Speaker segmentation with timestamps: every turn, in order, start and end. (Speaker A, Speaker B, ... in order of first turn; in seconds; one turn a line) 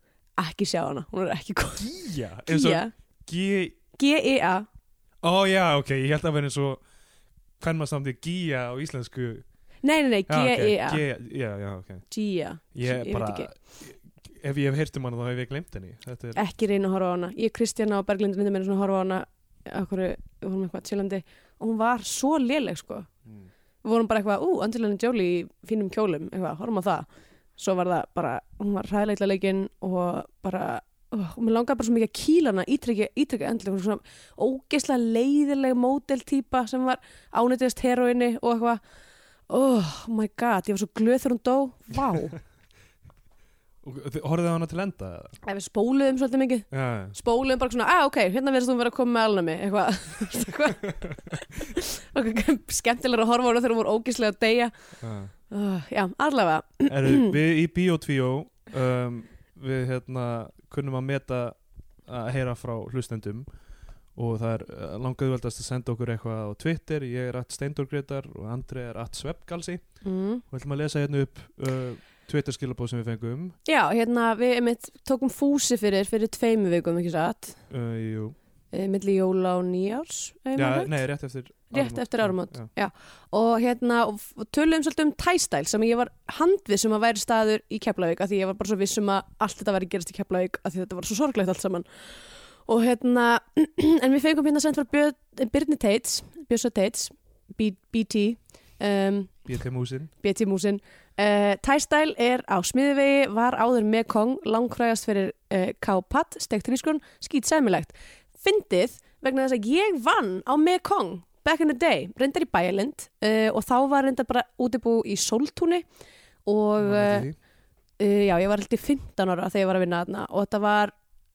Speaker A: 0.3-2.9
Speaker B: 1.8-3.8
Speaker A: 4.0-4.7
Speaker B: 5.2-6.9
Speaker B: 7.6-9.6
Speaker A: 9.8-11.0
Speaker B: 10.3-16.4
Speaker A: 12.1-13.5
Speaker A: 16.4-23.1
Speaker A: 23.8-38.8
Speaker A: 39.5-42.4
Speaker B: 43.8-45.4
Speaker A: 45.4-57.4
Speaker B: 46.7-47.1
Speaker B: 55.0-55.3
Speaker B: 56.9-73.6
Speaker A: 70.0-70.4
Speaker A: 73.6-77.7
Speaker B: 77.7-78.3
Speaker A: 78.7-99.5
Speaker B: 80.5-82.7
Speaker B: 99.5-100.1
Speaker A: 100.1-115.9
Speaker A: 116.4-121.0
Speaker B: 116.8-117.4